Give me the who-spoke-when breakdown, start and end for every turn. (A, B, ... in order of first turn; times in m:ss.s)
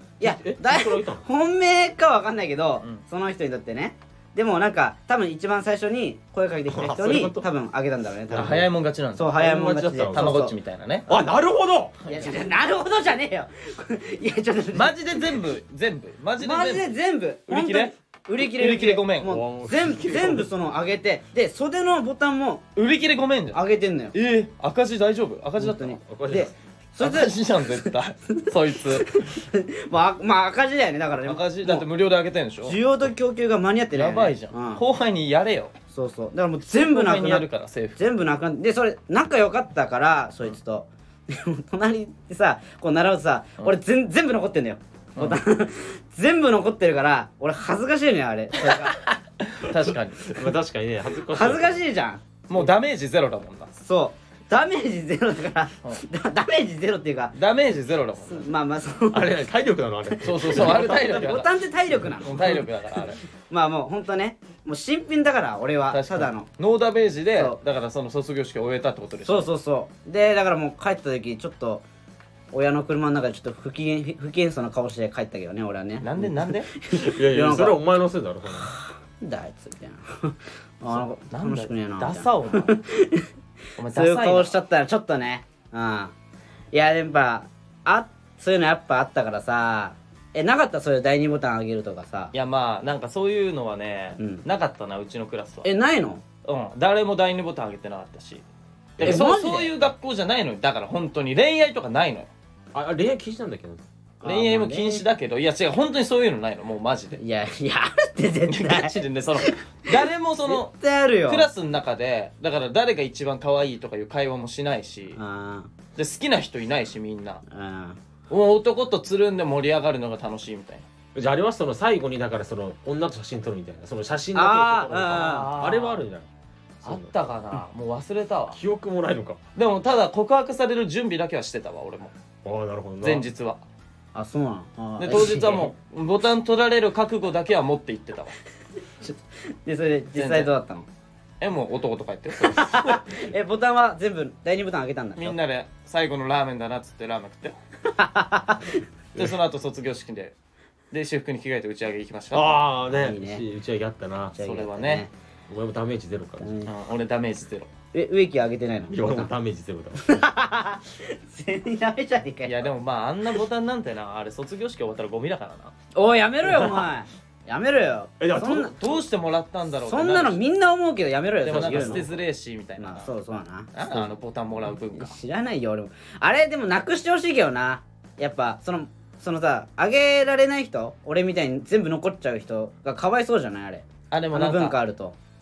0:00.2-0:10.5 A
0:00.2-0:01.2 B
0:06.7-0:07.4 B
0:08.3-0:08.7 B
0:08.3-0:09.5 C
0:09.3-0:10.4 B
0:10.1-0:11.2 C
0:11.1-0:12.0 B
0:12.1-0:12.3 C
0:12.1-0:15.4 A
0:14.7-0:16.9 C
0:16.4-0:22.6 A
0:17.5-0:19.4 C
0:19.2-0:20.5 B
0:22.8-0:23.6 C
0:23.5-0:24.1 A
0:24.1-0:26.0 C
0:25.6-0:31.9 A
0:26.0-0:26.5 B
0:27.0-0:29.2 C
0:31.2-0:32.8 C
0:32.6-0:34.8 A
0:33.9-0:35.7 C
0:35.9-0:49.0 A
0:36.7-0:38.0 C
0:45.2-0:45.4 C
0:48.6-0:50.4 C
0:49.7-0:51.8 B
0:51.3-0:52.2 A
0:52.5-0:53.7 C
0:53.8-0:57.3 A
0:57.3-0:58.5 C
0:58.2-0:59.5 A
0:59.1-1:01.4 B
1:00.2-1:01.5 C
1:00.4-1:02.6 A
1:02.0-1:02.6 B
1:02.2-1:03.2 C
1:03.5-1:06.5 A
1:05.9-1:09.5 C
1:09.2-1:11.8 A
1:12.5-1:17.8 A
1:16.0-1:16.7 C
1:16.9-1:18.7 B
1:18.6-1:23.3 A
1:20.9-1:22.8 C
1:23.8-1:24.6 C
1:23.9-1:26.1 A
1:26.7-1:32.3 A
1:32.3-1:35.7 C
1:34.2-1:34.4 A
1:35.6-1:36.2 A
1:36.4-1:38.4 C
1:39.0-1:39.3 B
1:39.0-1:42.3 C
1:39.0-1:39.8 A
1:42.7-1:43.8 B
1:44.2-1:45.0 A
1:44.2-1:47.2 C
1:47.2-1:51.5 A
1:48.5-1:50.7 C
1:51.2-1:55.2 C
1:55.2-1:55.7 A
1:56.0-1:57.4 C
1:57.5-1:58.0 A
1:58.3-2:00.9 C
2:01.1-2:06.3 B
2:04.3-2:05.5 A
2:05.1-2:06.0 C
2:06.8-2:07.1 B
2:06.8-2:08.6 C
2:08.5-2:09.4 B
2:09.6-2:12.1 C
2:12.4-2:13.2 B
2:13.0-2:13.6 C
2:14.1-2:15.7 A
2:15.0-2:18.3 C
2:19.0-2:20.9 A
2:20.2-2:20.5 C
2:21.4-2:23.2 C
2:22.4-2:25.4 A
2:25.2-2:27.6 C
2:27.9-2:28.8 A
2:29.1-2:30.3 C
2:30.9-2:32.7 C
2:32.3-2:34.4 B
2:32.9-2:33.4 A
2:34.4-2:35.1 A
2:34.4-2:35.0 C
2:35.5-2:36.5 B
2:36.4-2:36.7 A
2:36.6-2:37.7 C
2:37.9-2:39.3 A
2:38.9-2:40.2 B
2:40.0-2:42.7 A
2:42.4-2:45.7 C
2:45.9-2:48.7 A
2:46.4-2:46.9 B
2:48.2-2:48.9 B
2:48.4-2:50.4 C
2:49.8-2:52.1 A
2:51.4-2:52.2 B
2:51.4-2:53.1 C
2:52.8-2:54.1 A
2:53.7-2:55.1 C
2:54.9-3:05.2 A
3:04.1-3:04.8 C